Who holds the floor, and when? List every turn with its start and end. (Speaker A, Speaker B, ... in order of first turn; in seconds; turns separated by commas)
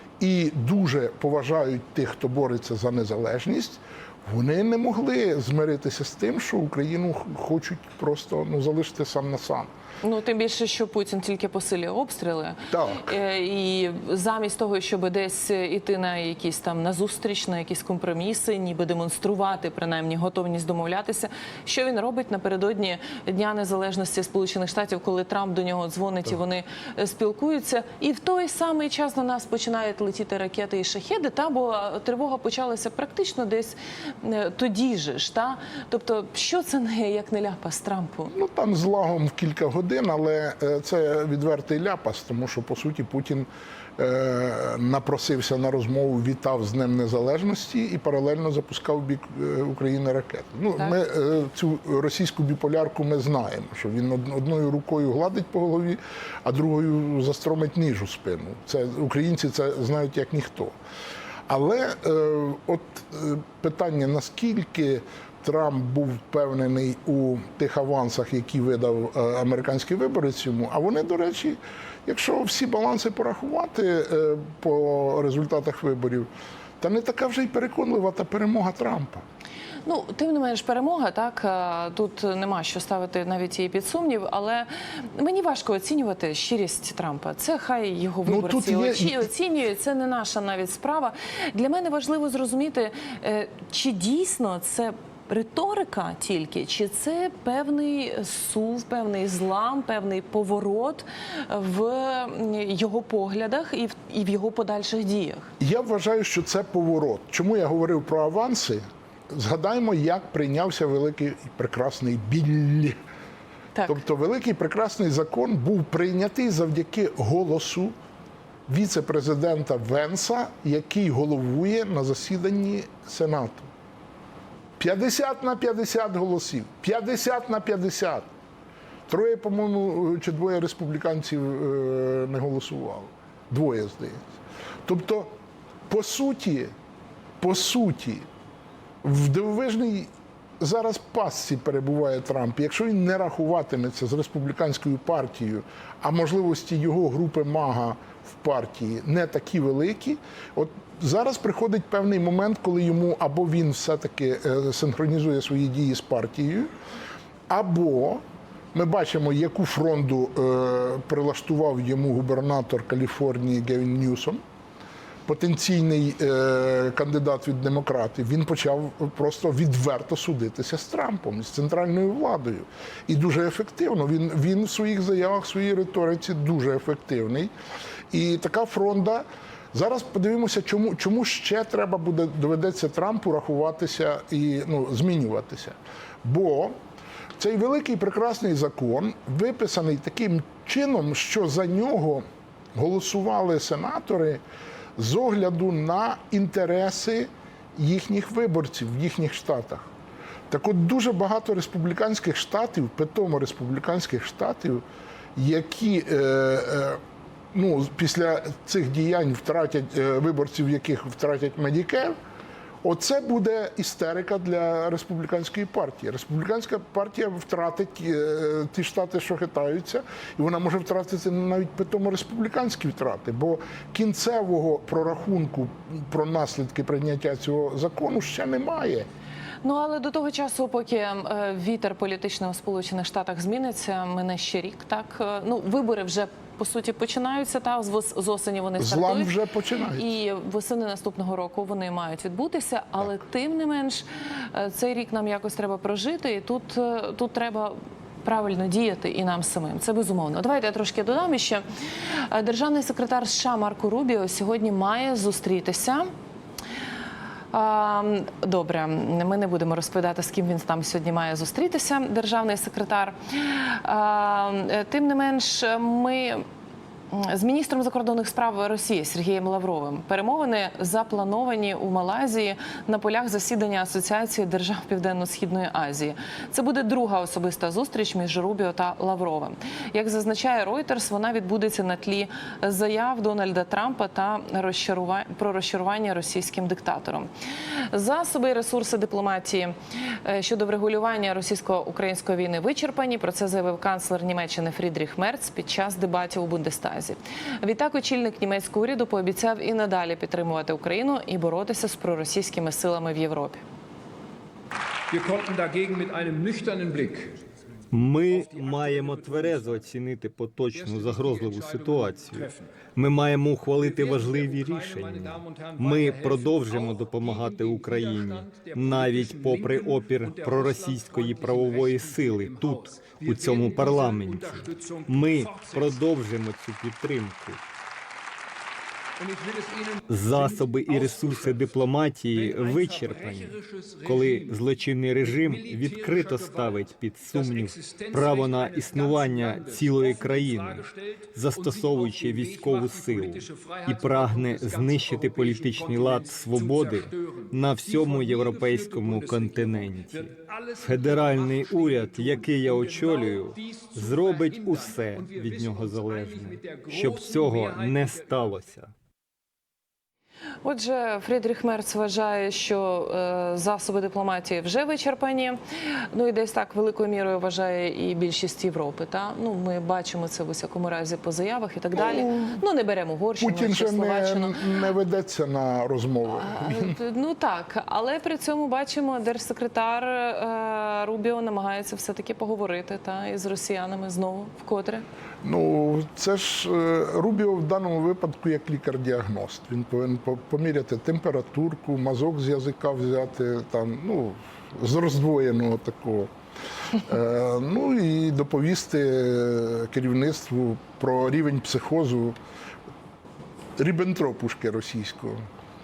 Speaker A: 0.2-9.7, Speaker B: 10.0-38.3, Speaker A: 12.7-13.2, Speaker A: 38.3-60.8, Speaker A: 61.5-76.3, Speaker A: 76.8-79.2, Speaker B: 79.9-105.5, Speaker A: 88.3-89.3, Speaker A: 105.6-113.0, Speaker A: 113.9-117.9, Speaker A: 118.7-123.7, Speaker A: 124.8-128.3, Speaker A: 129.1-134.3, Speaker A: 134.8-135.3, Speaker A: 135.9-136.7, Speaker A: 137.4-138.3, Speaker A: 139.0-156.7, Speaker A: 157.5-158.2, Speaker A: 158.7-164.4, Speaker A: 165.3-177.5, Speaker A: 178.1-186.8, Speaker A: 187.4-192.2, Speaker A: 192.8-194.4, Speaker A: 195.0-199.9, Speaker A: 200.5-204.8, Speaker A: 205.4-207.0, Speaker A: 207.5-212.2, Speaker A: 212.8-229.1, Speaker B: 229.6-239.3, Speaker A: 238.8-240.1, Speaker B: 239.9-256.1, Speaker B: 257.5-266.4, Speaker B: 267.1-287.3, Speaker B: 287.9-303.6, Speaker C: 305.1-307.4, Speaker D: 307.9-327.6, Speaker C: 308.3-309.7, Speaker C: 310.7-312.7, Speaker C: 313.8-326.0, Speaker C: 329.2-331.8, Speaker D: 330.1-358.9, Speaker C: 332.3-334.6, Speaker C: 335.2-340.9, Speaker C: 341.5-358.5, Speaker B: 360.6-365.6, Speaker B: 366.1-374.6, Speaker A: 371.9-372.6, Speaker A: 373.4-377.0, Speaker B: 376.3-385.1, Speaker A: 385.4-396.3, Speaker A: 397.0-402.4, Speaker A: 403.8-405.4